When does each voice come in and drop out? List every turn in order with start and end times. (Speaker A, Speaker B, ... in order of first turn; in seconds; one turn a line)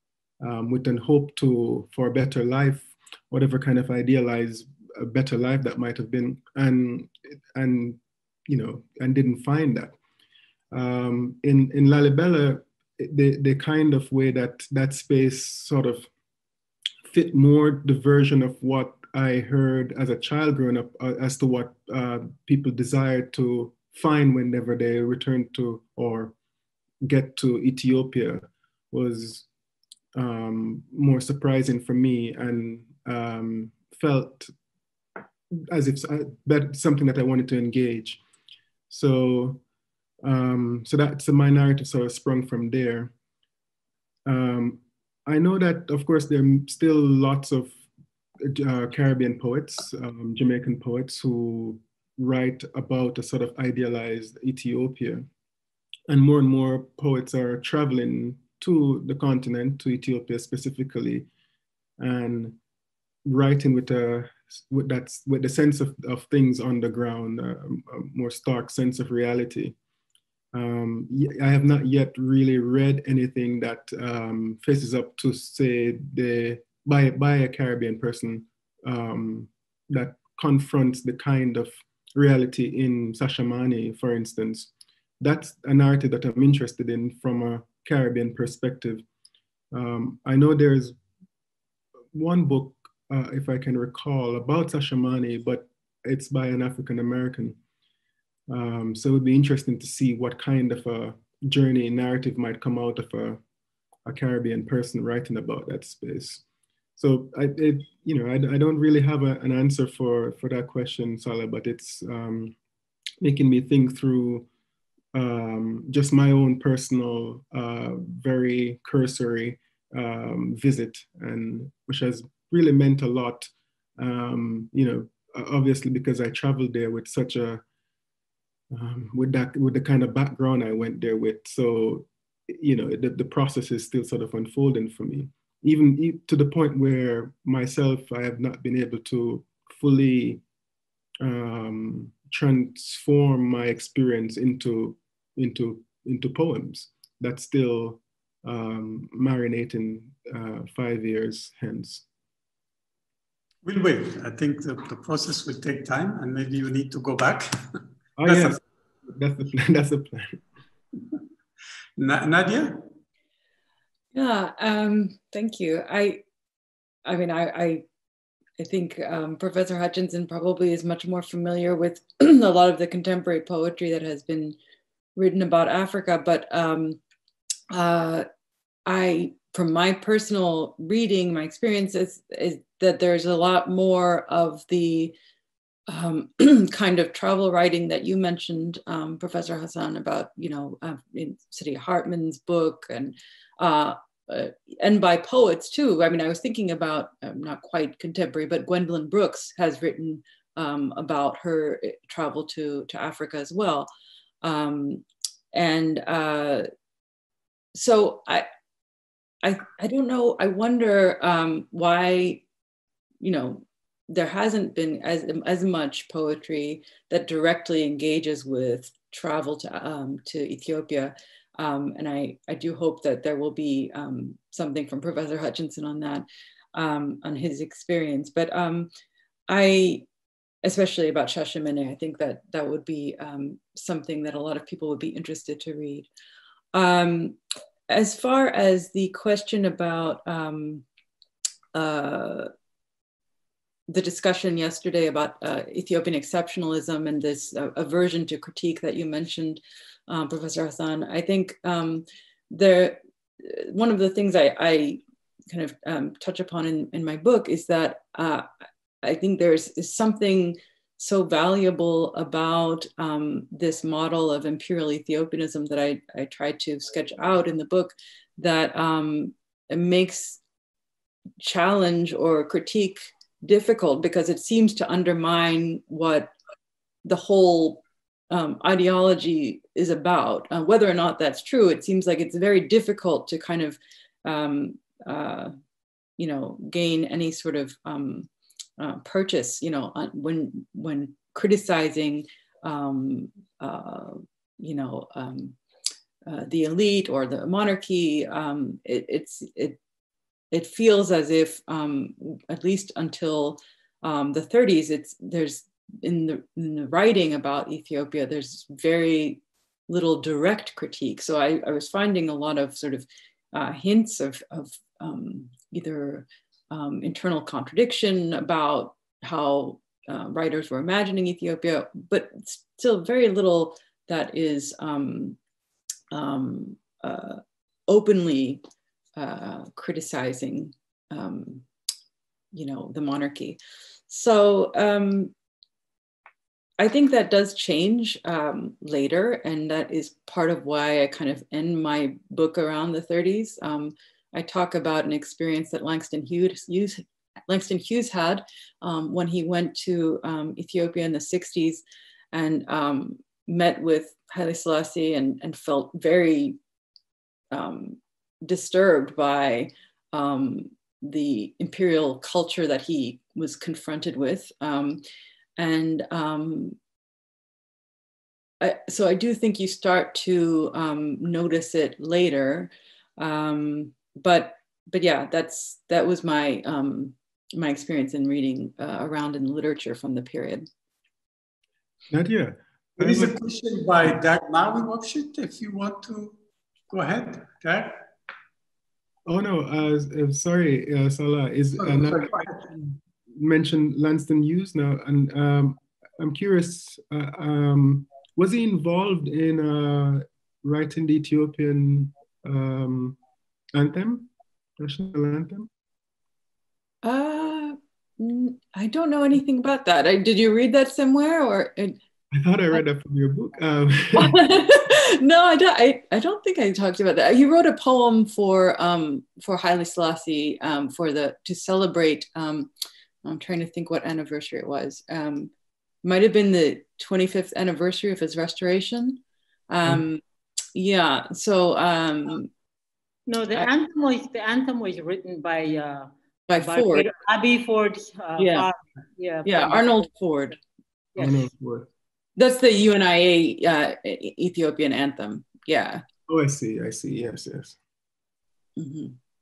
Speaker A: 0.4-10.0
Speaker A: 10.7-16.1
Speaker A: 17.1-26.4
Speaker A: 27.0-29.4
Speaker A: 30.1-34.5
Speaker A: 35.5-38.2
Speaker A: 38.9-39.6
Speaker A: 40.2-43.1
Speaker A: 44.3-47.8
Speaker A: 48.4-55.3
Speaker A: 56.1-61.3
Speaker A: 62.0-62.6
Speaker A: 63.2-69.8
Speaker A: 70.5-89.0
Speaker A: 89.7-91.0
Speaker A: 92.1-97.6
Speaker A: 98.5-103.4
Speaker A: 104.1-106.4
Speaker A: 107.0-112.5
Speaker A: 113.2-114.5
Speaker A: 115.1-127.6
Speaker A: 128.7-140.4
Speaker A: 141.2-152.0
Speaker B: 153.6-157.6
Speaker A: 158.2-160.4
Speaker B: 158.2-158.6
Speaker B: 162.0-162.9
Speaker C: 164.1-166.2
Speaker C: 167.1-167.8
Speaker C: 168.6-174.6
Speaker C: 175.2-177.0
Speaker C: 177.7-178.2
Speaker C: 178.9-185.2
Speaker C: 185.9-203.9
Speaker C: 204.4-206.7
Speaker C: 207.7-208.5
Speaker C: 209.4-212.4
Speaker C: 213.2-228.9
Speaker C: 229.5-230.1
Speaker C: 230.6-236.1
Speaker C: 236.7-237.4
Speaker C: 237.9-240.8
Speaker C: 241.7-242.5
Speaker C: 243.9-258.5
Speaker C: 259.0-270.4
Speaker C: 271.4-276.3
Speaker C: 277.1-285.5
Speaker C: 286.2-288.3
Speaker C: 288.8-295.6
Speaker C: 296.3-299.8
Speaker C: 300.5-325.4
Speaker C: 326.1-328.6
Speaker C: 329.2-331.6
Speaker C: 332.5-335.3
Speaker C: 336.8-356.6
Speaker C: 357.5-365.0
Speaker C: 365.6-366.8
Speaker C: 368.6-380.7
Speaker A: 382.1-383.4
Speaker B: 383.0-386.4
Speaker B: 386.9-388.1
Speaker A: 389.3-403.2
Speaker B: 391.8-392.6
Speaker A: 403.7-405.7
Speaker C: 407.0-412.0
Speaker A: 412.3-414.6
Speaker C: 414.2-422.7
Speaker C: 423.2-425.5
Speaker C: 426.0-430.2
Speaker C: 430.7-432.5
Speaker D: 433.3-439.9
Speaker C: 436.5-437.1
Speaker C: 438.4-438.7
Speaker C: 439.4-440.6
Speaker D: 441.2-441.4
Speaker A: 441.2-441.9
Speaker C: 442.4-446.0
Speaker A: 446.3-447.8
Speaker C: 448.8-449.2